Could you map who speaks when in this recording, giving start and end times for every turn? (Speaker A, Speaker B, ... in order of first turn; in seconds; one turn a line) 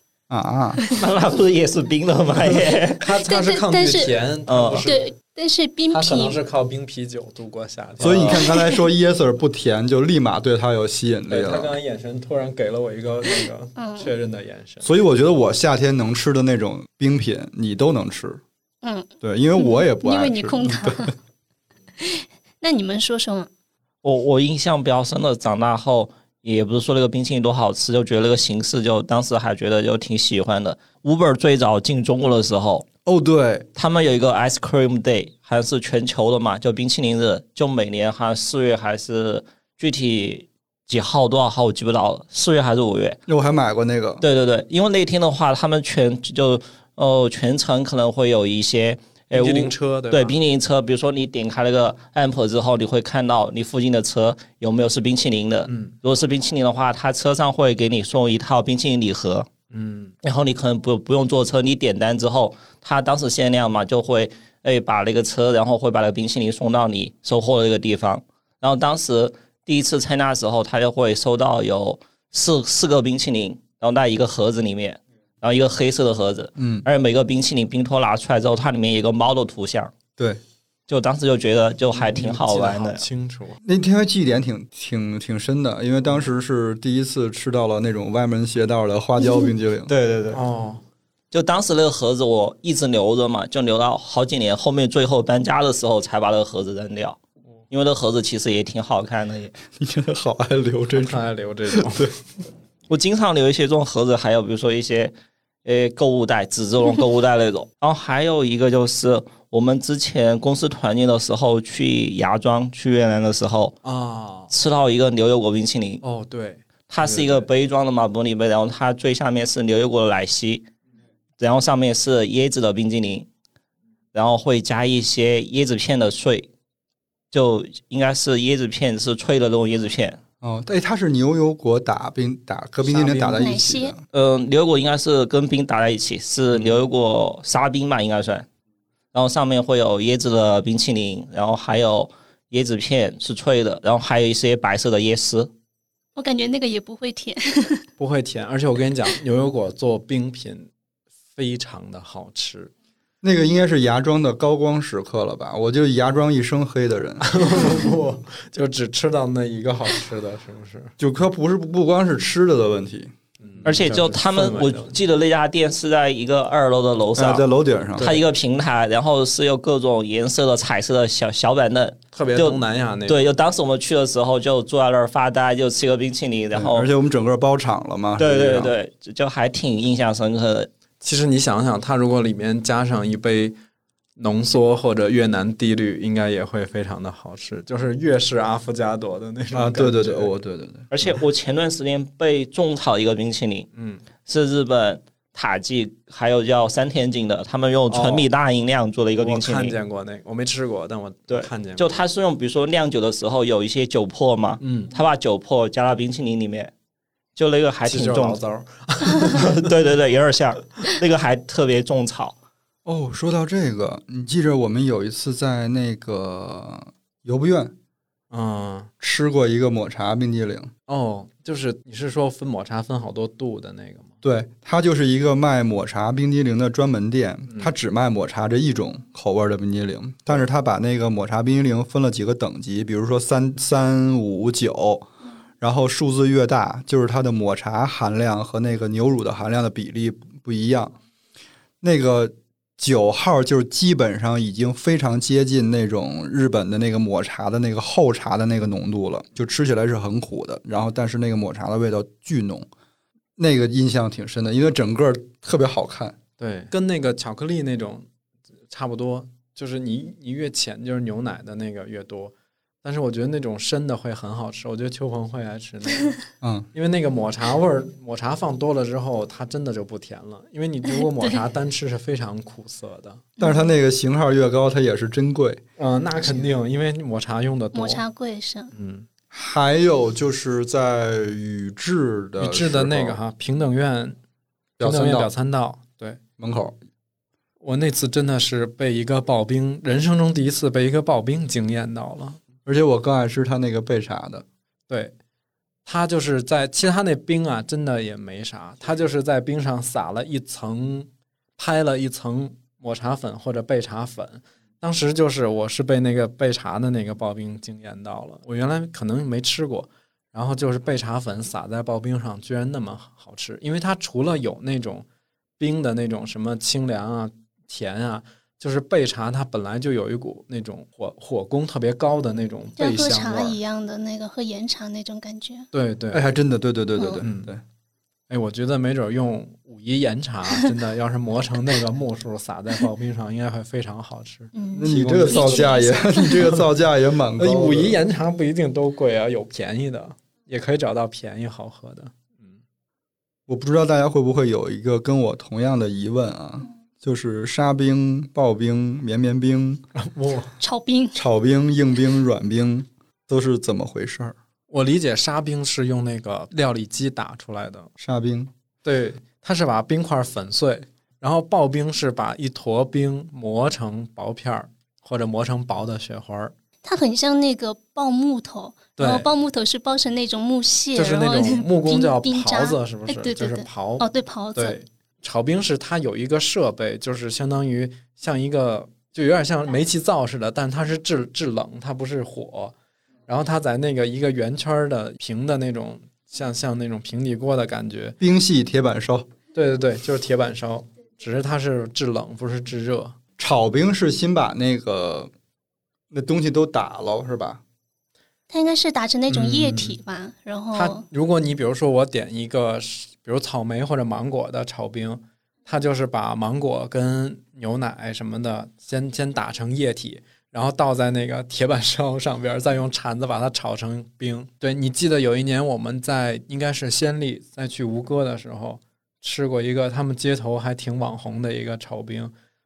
Speaker A: 0.3-0.8
Speaker B: 0.9-3.0
Speaker C: 2.4-5.1
Speaker D: 3.2-4.1
Speaker B: 4.5-4.9
Speaker D: 4.8-6.4
Speaker C: 5.9-8.5
Speaker A: 8.0-11.7
Speaker D: 8.4-8.8
Speaker C: 11.3-14.9
Speaker D: 13.8-14.1
Speaker A: 14.8-18.4
Speaker D: 18.8-21.1
Speaker A: 19.2-21.1
Speaker D: 22.0-23.5
Speaker B: 24.0-32.9
Speaker A: 33.0-33.7
Speaker B: 33.7-43.2
Speaker A: 43.3-44.2
Speaker B: 44.2-59.5
Speaker C: 49.3-50.3
Speaker C: 55.7-56.0
Speaker C: 59.7-60.1
Speaker B: 60.2-79.9
Speaker A: 76.6-76.8
Speaker B: 80.9-83.0
Speaker C: 81.9-83.6
Speaker A: 83.6-89.9
Speaker D: 89.2-89.5
Speaker B: 89.9-90.4
Speaker C: 90.3-90.8
Speaker B: 91.3-97.2
Speaker B: 97.7-99.5
Speaker A: 99.7-102.2
Speaker C: 100.9-102.1
Speaker B: 102.9-105.1
Speaker B: 105.6-113.8
Speaker C: 113.8-114.5
Speaker B: 114.5-116.0
Speaker C: 116.0-117.5
Speaker B: 116.9-120.7
Speaker B: 121.4-123.3
Speaker B: 124.1-126.5
Speaker B: 127.3-130.2
Speaker A: 130.4-134.0
Speaker C: 132.8-133.4
Speaker D: 133.3-133.9
Speaker B: 134.1-138.4
Speaker C: 136.5-136.8
Speaker B: 139.1-145.5
Speaker D: 146.2-147.8
Speaker C: 148.0-150.7
Speaker C: 151.3-152.7
Speaker A: 153.2-157.3
Speaker C: 157.2-160.9
Speaker A: 161.0-163.1
Speaker C: 163.4-165.0
Speaker B: 163.6-167.4
Speaker A: 167.2-168.2
Speaker B: 168.0-176.9
Speaker C: 172.1-173.3
Speaker A: 176.5-178.7
Speaker B: 178.2-180.7
Speaker C: 181.0-183.6
Speaker C: 184.2-190.3
Speaker A: 189.5-190.9
Speaker B: 190.9-193.7
Speaker C: 193.7-194.0
Speaker B: 194.2-199.8
Speaker C: 197.9-198.3
Speaker C: 199.2-202.0
Speaker B: 201.3-206.7
Speaker C: 204.6-204.9
Speaker B: 207.3-208.4
Speaker C: 207.8-209.7
Speaker B: 209.1-212.3
Speaker A: 212.8-217.7
Speaker C: 218.3-218.9
Speaker A: 219.0-220.7
Speaker C: 220.9-224.1
Speaker A: 224.2-235.1
Speaker C: 227.5-227.7
Speaker A: 235.6-240.9
Speaker A: 241.8-252.7
Speaker A: 253.4-256.1
Speaker C: 256.4-258.1
Speaker C: 258.7-266.2
Speaker A: 266.4-266.7
Speaker C: 266.7-273.3
Speaker D: 270.9-271.4
Speaker D: 273.4-273.7
Speaker A: 273.4-275.6
Speaker C: 275.8-278.0
Speaker D: 277.7-278.7
Speaker C: 278.7-279.1
Speaker A: 279.3-283.2
Speaker C: 282.4-284.2
Speaker A: 284.8-285.3
Speaker C: 284.8-286.2
Speaker A: 286.4-286.8
Speaker C: 287.6-292.4
Speaker A: 292.6-294.4
Speaker C: 295.9-315.0
Speaker C: 315.6-323.6
Speaker D: 322.8-325.7
Speaker C: 325.7-326.3
Speaker A: 326.1-327.6
Speaker D: 327.0-327.2
Speaker C: 327.2-327.5
Speaker C: 328.3-336.7
Speaker D: 334.5-336.5
Speaker A: 334.8-338.0
Speaker C: 337.4-342.5
Speaker A: 343.5-349.8
Speaker C: 349.9-350.5
Speaker D: 350.6-351.2
Speaker A: 351.1-354.4
Speaker C: 354.7-357.9
Speaker A: 358.0-358.5
Speaker C: 358.8-366.5
Speaker D: 366.8-374.8
Speaker C: 369.0-369.3
Speaker C: 370.9-382.7
Speaker C: 383.3-388.2
Speaker A: 388.2-389.3
Speaker C: 389.5-393.1
Speaker A: 393.4-395.3
Speaker A: 396.1-397.6
Speaker D: 398.5-401.0
Speaker C: 399.3-399.9
Speaker C: 400.7-422.3